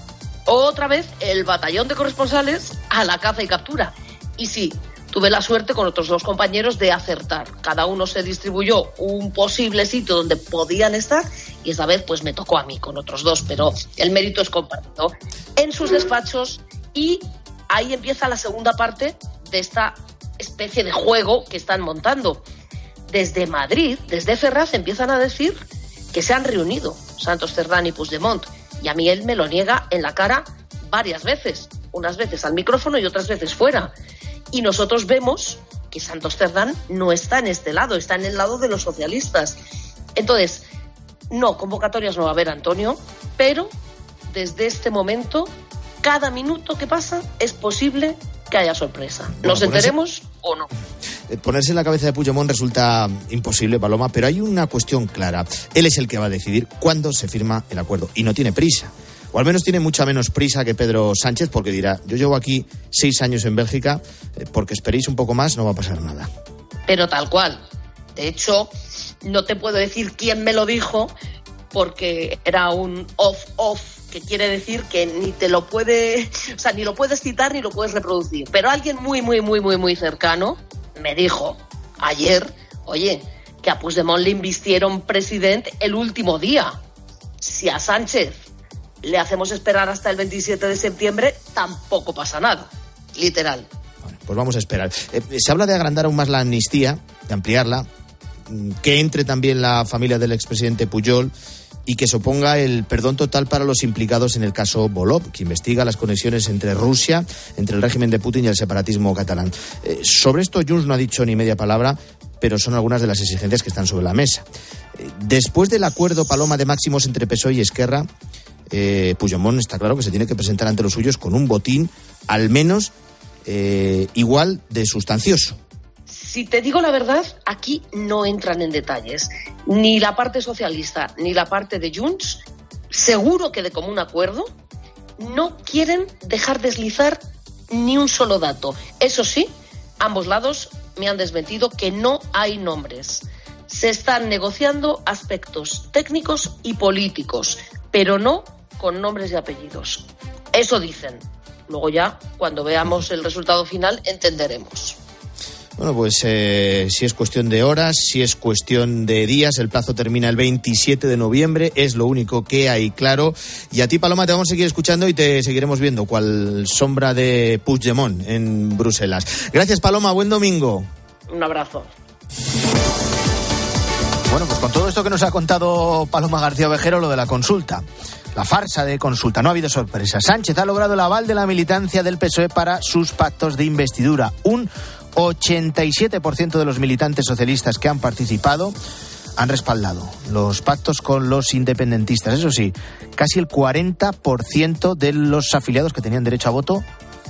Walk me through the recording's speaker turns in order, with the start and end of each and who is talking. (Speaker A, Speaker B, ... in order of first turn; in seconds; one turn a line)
Speaker A: 0.5-22.4
Speaker A: 23.1-33.9
Speaker A: 34.5-39.6
Speaker A: 40.2-40.6
Speaker A: 41.3-43.7
Speaker A: 44.3-45.5
Speaker A: 46.0-50.7
Speaker B: 49.4-49.9
Speaker B: 51.3-66.3
Speaker A: 66.9-67.6
Speaker A: 68.2-68.7
Speaker A: 69.2-71.1
Speaker A: 71.7-86.8
Speaker A: 87.4-88.5
Speaker A: 89.0-93.7
Speaker B: 94.0-97.9
Speaker B: 98.5-101.3
Speaker B: 101.9-114.4
Speaker B: 115.0-118.1
Speaker B: 118.7-122.9
Speaker B: 123.5-125.6
Speaker A: 126.1-134.5
Speaker A: 135.2-155.0
Speaker B: 155.8-170.9
Speaker A: 171.3-171.9
Speaker B: 174.3-177.8
Speaker B: 178.3-188.8
Speaker B: 189.4-196.8